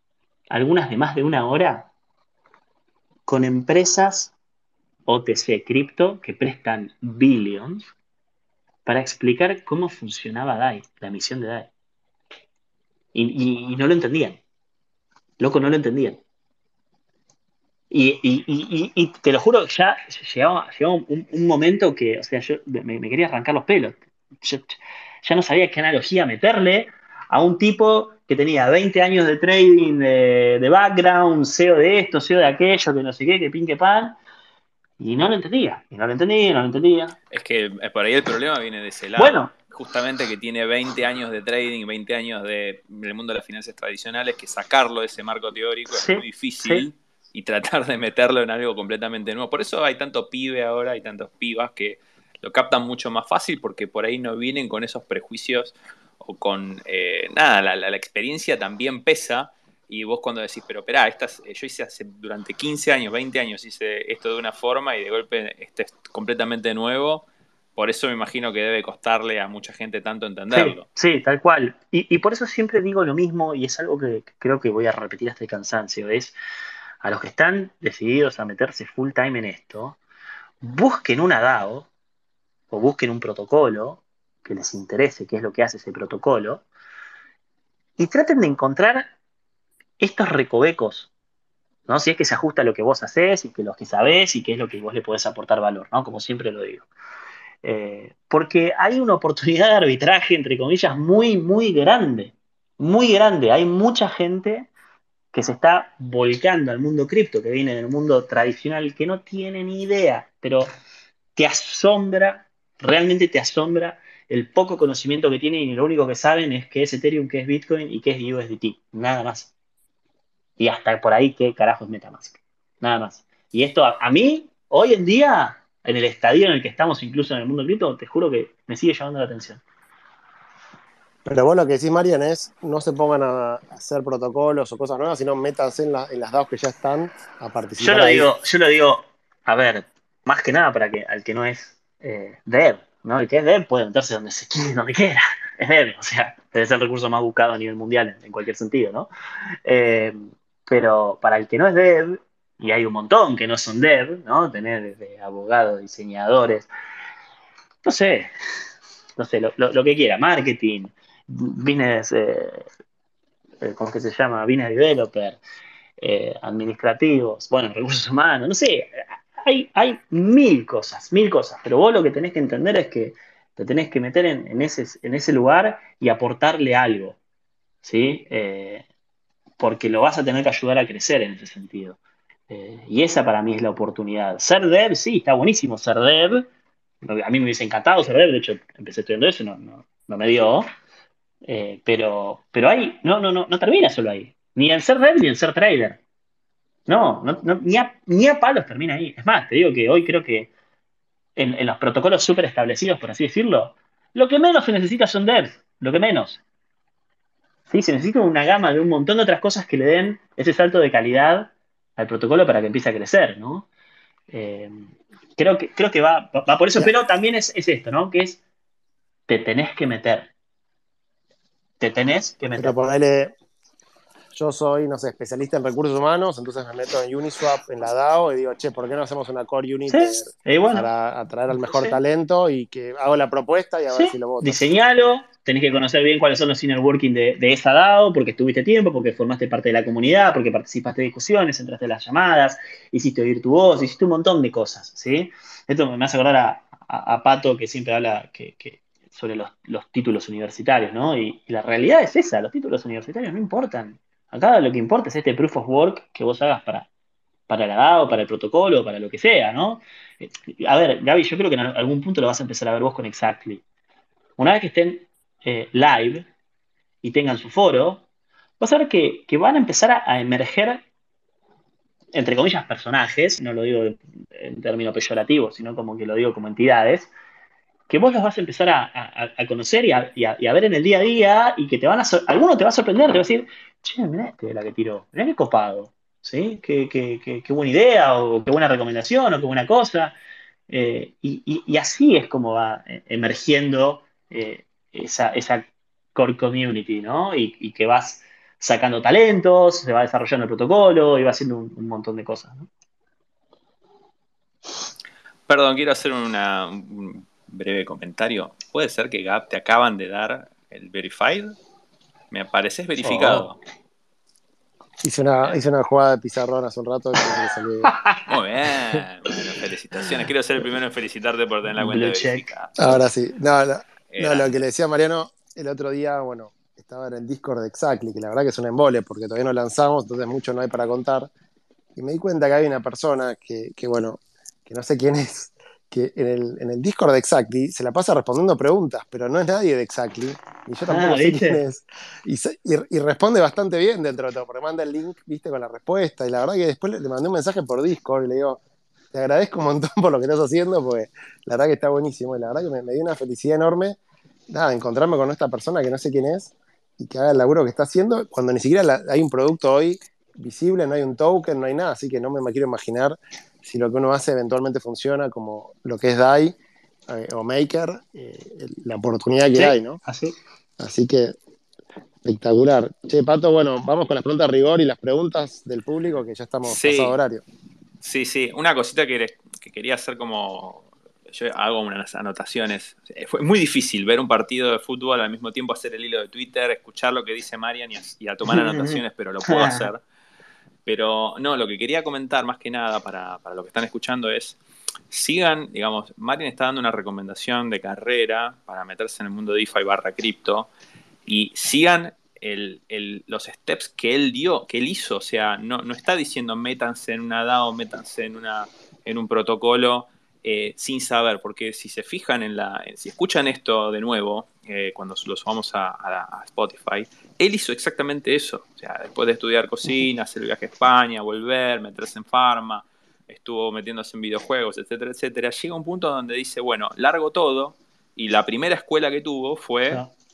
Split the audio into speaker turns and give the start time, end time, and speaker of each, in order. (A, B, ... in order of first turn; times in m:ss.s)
0:00.5-0:01.9 A
0:03.3-0:04.3 A
0:05.1-0:07.9 A
0:08.8-0:11.7 A
0:13.1-0:14.4 A
0:15.4-0:16.2 A
0:17.9-0:34.2 A
0:35.0-0:37.2 A
0:37.3-1:10.8 B
0:39.2-0:39.5 A
0:45.9-0:46.9 A
1:10.5-1:16.4 A
1:17.0-1:20.0 A
1:20.6-1:21.9 A
1:22.7-1:26.6 A
1:28.0-1:29.1 A
1:30.0-1:31.1 A
1:31.9-1:36.9 A
1:37.6-1:44.7 A
1:45.3-1:50.7 A
1:51.4-1:59.5 A
2:00.6-2:09.6 A
2:11.2-2:18.3 C
2:17.8-2:29.1 A
2:29.6-2:36.7 A
2:37.8-2:38.3 A
2:39.2-2:42.6 A
2:43.6-2:45.4 A
2:46.0-2:57.2 A
2:57.8-2:58.8 A
2:59.6-3:02.0 A
3:02.5-3:06.5 A
3:07.0-3:10.7 A
3:11.4-3:16.0 A
3:16.9-3:20.5 A
3:21.4-3:26.4 A
3:27.7-3:33.7 A
3:34.3-3:38.4 A
3:39.3-3:40.3 A
3:41.8-3:42.8 A
3:42.6-3:43.3 C
3:44.3-3:54.6 C
3:49.9-3:50.9 A
3:51.5-3:52.0 A
3:53.9-4:16.9 A
4:17.5-4:23.6 A
4:24.4-4:26.3 A
4:27.0-4:28.0 A
4:28.6-4:30.8 A
4:32.1-4:37.1 A
4:37.9-4:50.2 A
4:50.7-5:02.7 A
5:05.5-5:11.6 B
5:12.3-5:13.6 B
5:13.0-5:13.5 A
5:15.0-5:17.9 C
5:18.3-5:23.0 B
5:21.8-5:22.5 A
5:22.8-5:31.3 C
5:24.1-5:24.5 B
5:32.0-5:48.6 C
5:40.9-5:41.6 A
5:49.1-5:54.0 C
5:54.5-6:06.6 C
6:07.1-6:10.0 C
6:09.5-6:10.4 A
6:10.8-6:11.4 C
6:12.2-6:17.4 C
6:16.6-6:17.2 B
6:18.0-6:30.0 B
6:28.5-6:29.9 A
6:30.8-6:34.6 B
6:35.1-6:40.7 B
6:41.2-7:10.0 B